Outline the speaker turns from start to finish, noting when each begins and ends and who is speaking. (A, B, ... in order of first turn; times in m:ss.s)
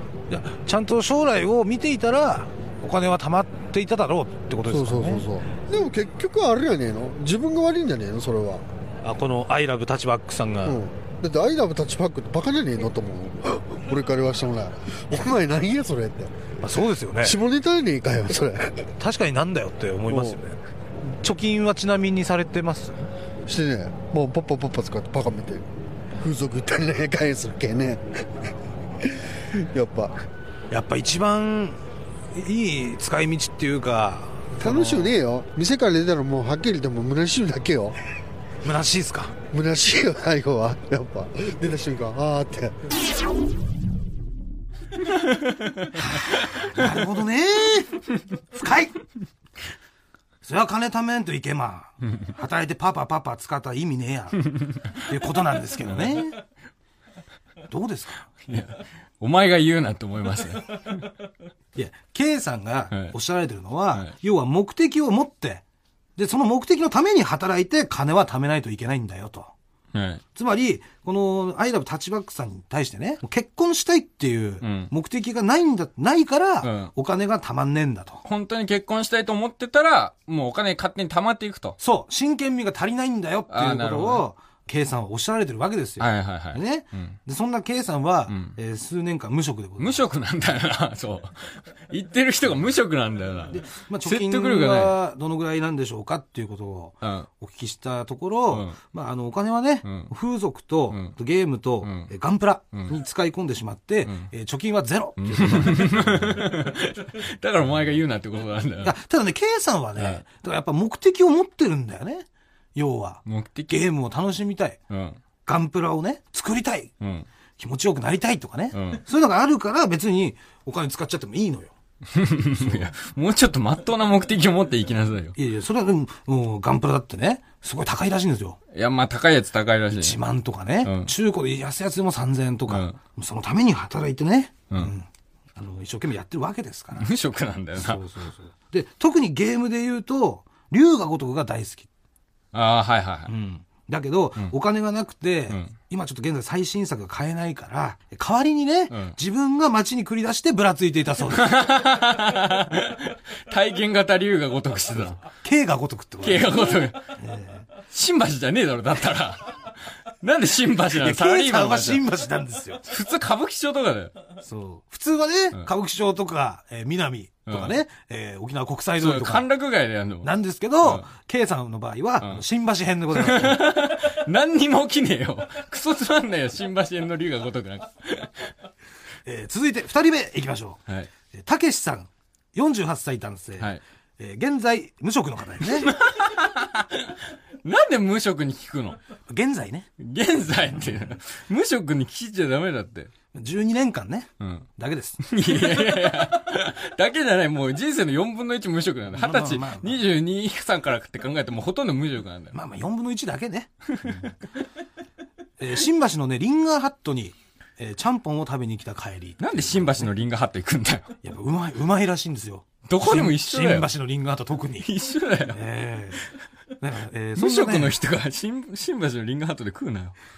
0:00.3-0:05.2 A
0:04.7-0:08.6 B
0:09.0-0:10.8 A
0:10.6-0:16.6 B
0:16.6-0:17.4 A
0:17.2-0:18.9 B
0:19.0-0:23.0 A
0:20.1-0:20.4 B
0:23.5-0:25.6 B
0:26.2-0:28.5 B
0:29.0-0:30.2 B
0:30.7-0:31.8 A
0:32.3-0:35.1 A
0:34.6-0:38.0 B
0:38.6-0:39.4 A
0:39.5-0:42.9 B
0:45.4-0:45.9 C
0:45.9-0:49.0 A
0:50.4-0:56.4 A
0:55.8-0:56.2 C
0:57.7-0:58.3 A
0:58.4-1:01.0 C
1:01.8-1:05.6 A
1:06.2-1:09.5 A
1:09.9-1:10.2 C
1:10.4-1:18.2 A
1:14.6-1:14.9 C
1:16.6-1:16.9 C
1:18.2-1:21.8 C
1:21.8-1:30.0 A
1:23.5-1:24.3 C
1:26.0-1:27.2 C
1:28.3-1:28.6 C
1:29.8-1:35.0 C
1:33.5-1:46.5 A
1:37.0-1:37.3 C
1:38.5-1:38.8 C
1:39.8-1:40.1 C
1:41.8-1:42.1 C
1:45.2-1:48.9 C
1:48.8-1:54.8 A
1:50.0-1:50.2 C
1:53.2-1:53.8 C
1:54.9-1:55.2 C
1:55.4-1:56.9 A
1:57.0-1:57.3 C
1:57.6-2:01.7 A
1:58.7-1:59.0 C
2:02.1-2:05.4 C
2:02.6-2:02.9 A
2:05.4-2:08.6 A
2:08.7-2:10.2 C
2:10.0-2:17.1 A
2:10.8-2:11.1 C
2:12.7-2:13.0 C
2:17.0-2:18.0 C
2:17.8-2:21.9 A
2:22.5-2:23.3 C
2:23.3-2:31.6 A
2:28.9-2:29.2 C
2:31.3-2:35.2 C
2:35.4-2:37.7 A
2:36.2-2:37.2 C
2:37.8-2:42.0 C
2:40.9-2:42.8 A
2:42.8-2:44.2 C
2:44.4-2:49.5 A
2:47.5-2:47.8 C
2:49.0-2:50.3 C
2:50.2-2:53.7 A
2:53.1-2:58.5 C
2:59.2-3:06.0 A
3:05.9-3:09.0 C
3:09.3-3:09.9 A
3:10.0-3:13.1 C
3:13.3-3:15.2 A
3:14.4-3:14.7 C
3:15.2-3:22.6 C
3:19.2-3:20.0 A
3:22.5-3:24.3 A
3:23.9-3:24.3 C
3:25.6-3:30.1 A
3:29.4-3:31.1 C
3:31.2-3:34.9 A
3:32.9-3:33.9 C
3:34.8-3:35.6 C
3:35.5-3:36.2 A
3:36.8-3:38.0 A
3:37.4-3:40.1 C